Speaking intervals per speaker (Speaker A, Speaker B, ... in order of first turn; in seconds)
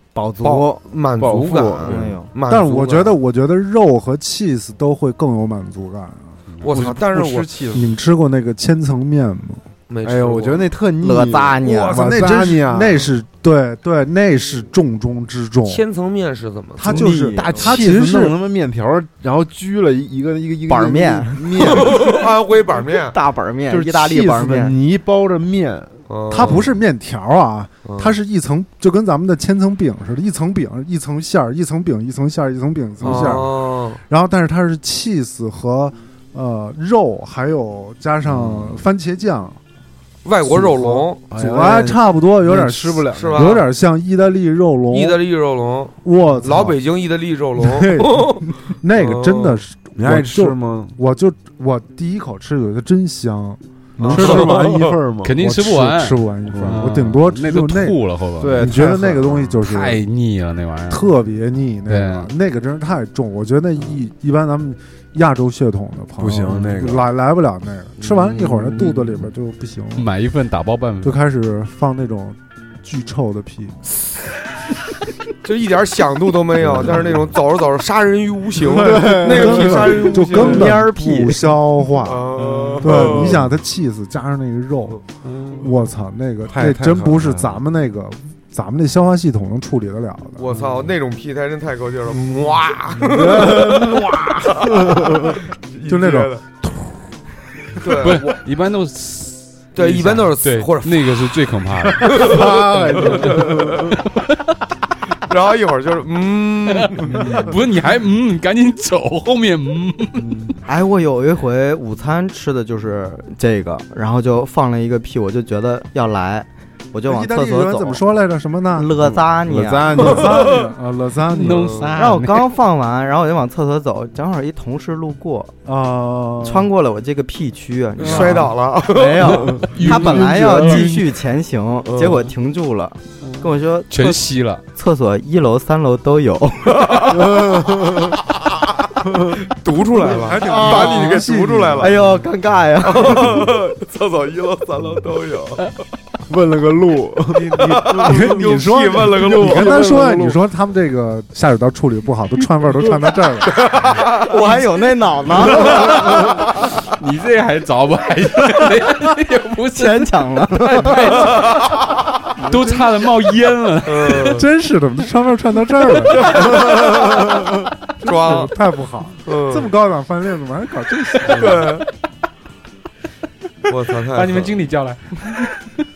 Speaker A: 0.1-0.8, 1.8-2.3, 11.0-12.0, 16.9-17.5, 20.7-21.4, 23.1-24.7, 80.3-81.5, 110.6-118.0, 118.8-120.1, 122.0-125.5, 126.4-137.0, 140.5-141.1, 141.8-143.4, 154.2-155.9, 159.8-160.9, 162.4-162.8
Speaker B: 0.4-3.2, 6.6-7.5, 9.9-10.7, 11.6-12.1, 15.6-17.7, 21.6-23.2, 26.1-26.7, 27.8-28.2, 33.0-34.0, 40.2-41.3, 43.1-43.6, 44.9-49.6, 54.0-55.0, 68.0-69.1, 75.4-80.8, 82.0-83.4, 90.4-96.4, 97.8-98.4, 99.7-101.3, 102.0-103.9, 105.3-107.2, 120.0-120.7, 121.5-121.9, 128.0-129.7, 131.9-132.2, 136.7-137.3, 139.4-142.0, 142.8-145.7, 147.4-150.0, 153.5-154.6, 155.6-156.1, 161.2-161.8, 163.8-164.4, 166.1-167.4, 168.0-168.5, 169.2-169.7, 171.3-171.8, 173.7-174.6
Speaker C: 1.2-2.2, 6.7-7.9, 10.0-13.1, 17.1-22.1, 23.7-26.6, 33.0-33.4, 38.3-38.8, 40.4-43.6, 50.0-51.0, 54.0-55.3, 56.5-56.9, 58.4-59.6, 66.2-67.1, 76.6-77.2, 78.7-80.4, 83.0-83.4, 86.5-87.6, 92.9-95.4, 102.0-104.0, 110.2-110.5, 119.0-120.5, 129.7-130.8, 137.1-138.2, 139.1-139.3, 146.3-148.4, 149.0-150.4
Speaker D: 2.5-6.4, 7.7-9.6, 11.9-15.8, 16.8-18.4, 26.3-39.6, 41.3-45.2, 46.0-46.8, 47.6-54.6, 55.4-58.0, 58.5-60.0, 60.9-70.1, 71.0-73.8, 78.6-82.3, 82.8-85.0, 85.6-90.4, 95.8-97.1, 117.1-119.1, 120.0-121.9, 125.6-126.7, 128.0-128.5, 129.8-130.9, 139.9-142.0, 147.6-153.7, 160.9-161.1, 164.3-171.8
Speaker E: 55.2-58.8, 59.6-61.1, 61.9-62.3, 69.9-71.2, 82.5-82.8, 85.2-85.7, 98.0-102.4, 103.0-104.5, 106.7-110.5, 121.3-122.5, 129.8-130.9, 133.2-134.6, 156.9-161.7, 162.4-164.4, 174.1-175.8